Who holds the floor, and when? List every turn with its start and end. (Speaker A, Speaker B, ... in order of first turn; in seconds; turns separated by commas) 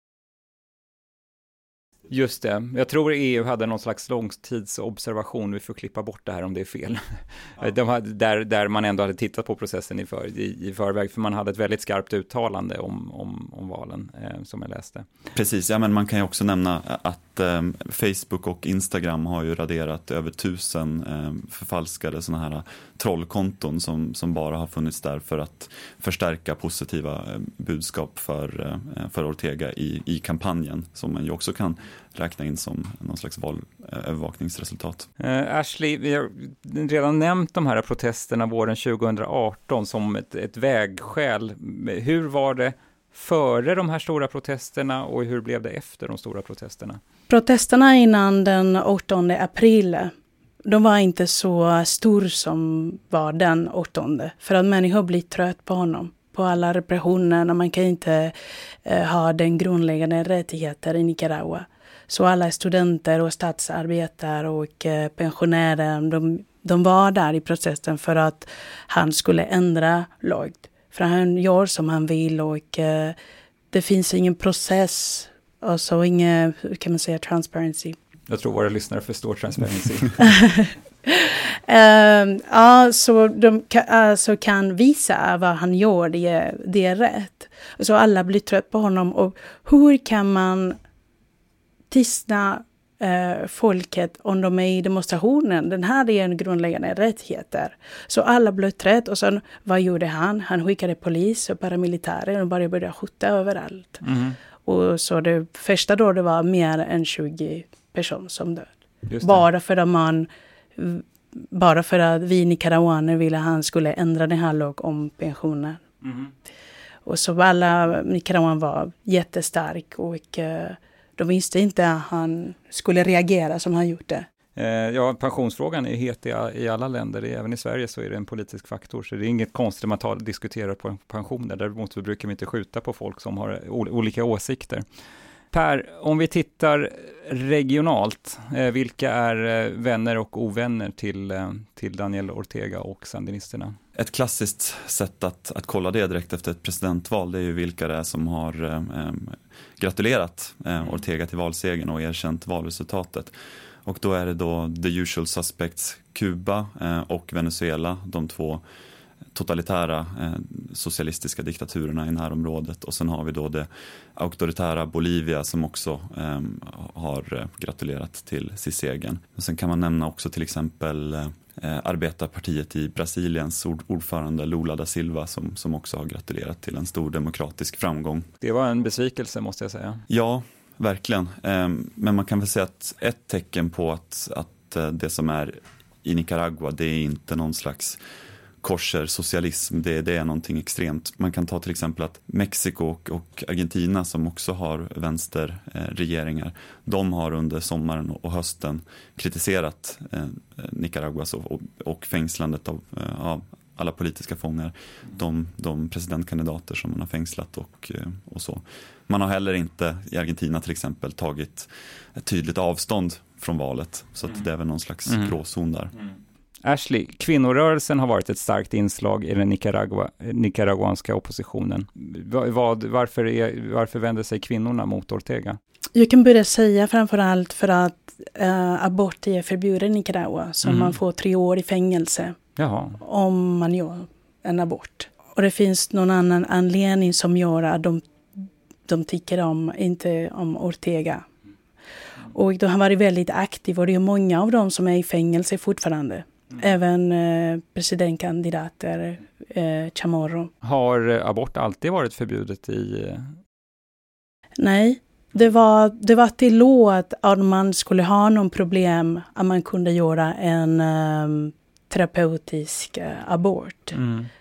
Speaker A: 2.1-15.1, Speaker B: 15.3-35.1, Speaker A: 35.2-47.0, Speaker C: 47.3-50.1, Speaker C: 50.6-58.3, Speaker C: 58.8-73.2, Speaker C: 73.7-78.0, Speaker A: 78.3-80.3, Speaker C: 80.2-90.8, Speaker C: 91.9-104.0, Speaker A: 104.0-104.4, Speaker C: 104.7-115.8, Speaker A: 109.1-109.4, Speaker A: 116.0-116.3, Speaker C: 117.1-124.3, Speaker A: 124.6-134.8, Speaker A: 135.5-143.8, Speaker B: 143.9-153.3, Speaker B: 153.8-158.6, Speaker B: 159.3-178.3, Speaker A: 178.4-180.0, Speaker B: 180.1-188.0, Speaker B: 188.6-215.9, Speaker A: 215.1-215.3, Speaker A: 216.6-225.6, Speaker C: 225.9-232.4, Speaker A: 230.6-231.0, Speaker A: 232.6-233.0, Speaker C: 233.0-238.0, Speaker C: 238.9-241.3, Speaker C: 242.3-250.5, Speaker A: 250.6-253.3, Speaker C: 254.6-264.0, Speaker A: 263.9-264.3